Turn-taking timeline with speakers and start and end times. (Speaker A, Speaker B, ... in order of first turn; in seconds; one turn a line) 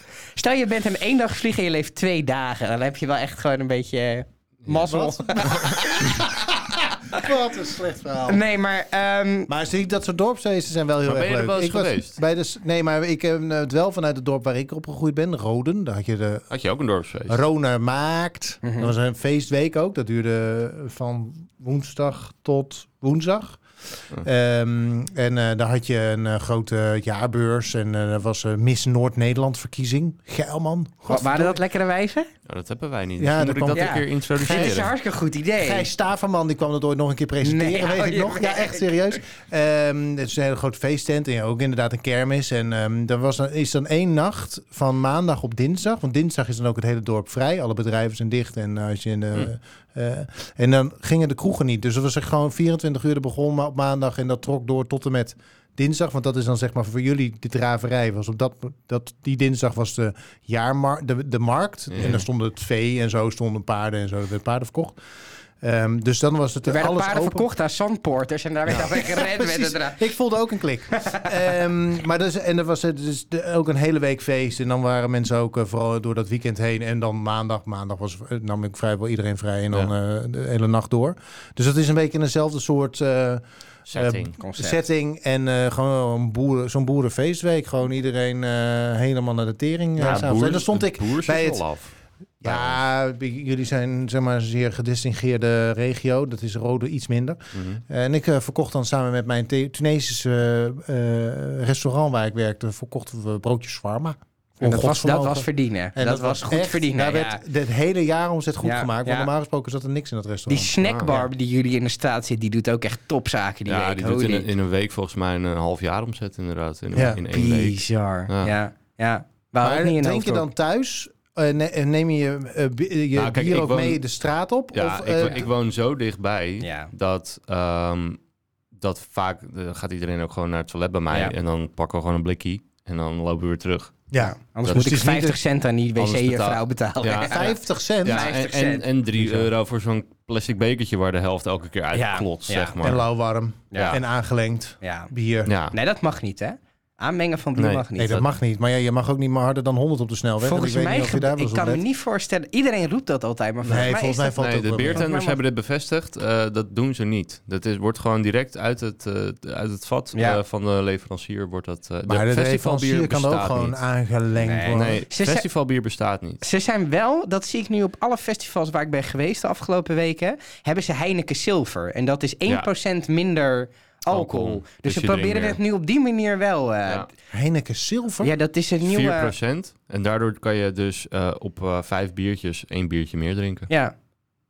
Speaker A: 0.3-6.2
Speaker B: 4.9-8.4
Speaker A: 8.3-9.5
Speaker B: 9.5-16.5
Speaker C: 11.1-12.2
Speaker C: 16.5-17.4
Speaker B: 17.3-23.6
Speaker A: 18.6-18.9
Speaker B: 24.2-31.6
Speaker A: 31.1-32.3
Speaker C: 32.5-34.9
Speaker B: 33.2-34.9
Speaker A: 33.7-35.9
Speaker B: 35.6-65.0
Speaker A: 37.4-39.1
Speaker C: 61.9-62.2
Speaker B: 65.6-67.5
Speaker A: 66.7-70.1
Speaker B: 68.9-83.4
Speaker A: 71.0-71.3
Speaker C: 83.9-84.4
Speaker B: 83.9-91.6
Speaker A: 84.4-84.8
Speaker C: 90.0-92.8
Speaker B: 92.4-111.3
Speaker C: 97.5-97.8
Speaker A: 104.6-107.4
Speaker A: 108.6-109.3
Speaker A: 110.5-114.5
Speaker C: 110.8-111.1
Speaker C: 113.7-118.5
Speaker B: 117.0-117.2
Speaker A: 117.0-120.5
Speaker B: 119.6-125.5
Speaker C: 123.2-124.0
Speaker C: 124.7-128.2
Speaker A: 126.6-126.9
Speaker C: 128.8-134.1
Speaker B: 134.1-135.4
Speaker A: 134.2-138.9
Speaker C: 134.7-134.9
Speaker C: 136.0-137.5
Speaker B: 137.2-138.3
Speaker C: 138.0-143.1
Speaker B: 139.2-139.5
Speaker A: 141.9-142.8
Speaker B: 142.8-145.5
Speaker A: 143.7-144.0
Speaker A: 144.8-145.1
Speaker C: 145.5-145.8
Speaker A: 145.7-148.3
Speaker C: 147.6-147.8
Speaker B: 148.0-151.8
Speaker A: 150.4-155.4
Speaker B: 153.6-155.1
Speaker C: 153.7-163.8
Speaker A: 160.2-160.4
Speaker B: 162.1-165.0
Speaker A: 164.4-165.5
Speaker C: 164.7-166.4
Speaker A: 166.4-177.1
Speaker C: 174.1-175.6
Speaker B: 177.3-178.3
Speaker A: 178.2-179.3
Speaker C: 178.8-183.7
Speaker A: 183.7-183.9